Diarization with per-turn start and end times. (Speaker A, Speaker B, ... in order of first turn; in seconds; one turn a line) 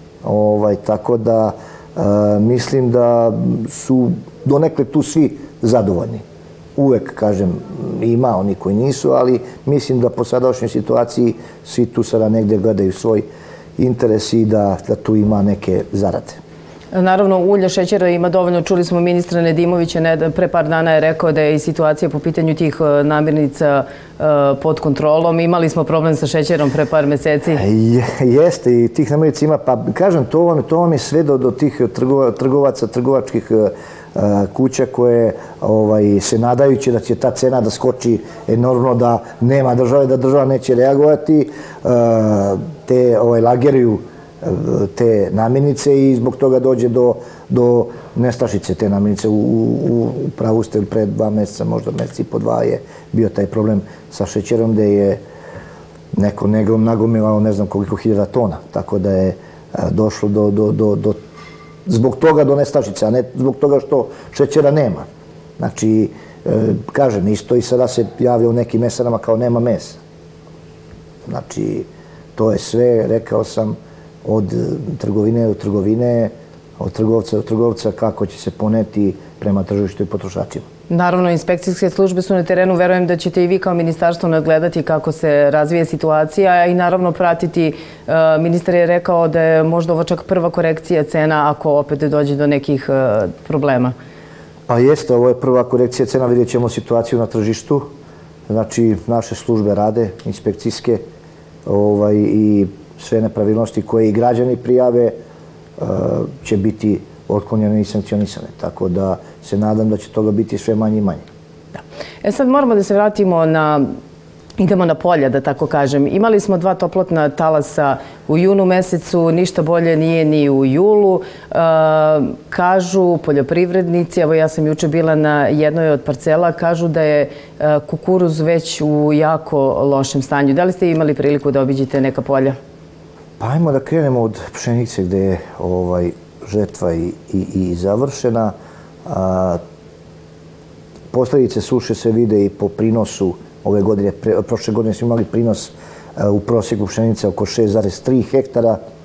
Speaker A: 0.2-6.2
Speaker A: 6.8-13.3
Speaker A: 13.8-16.4
Speaker B: 16.9-27.6
Speaker A: 27.6-55.2
Speaker A: 56.1-61.2
Speaker A: 61.9-65.1
Speaker A: 65.6-70.0
Speaker A: 71.3-80.7
Speaker B: 80.9-94.0
Speaker A: 94.7-97.9
Speaker A: 98.5-101.0
Speaker A: 101.7-105.2
Speaker A: 105.8-111.2
Speaker B: 112.2-114.0
Speaker B: 114.6-132.6
Speaker A: 133.4-138.5
Speaker A: 139.1-139.6
Speaker A: 141.1-148.8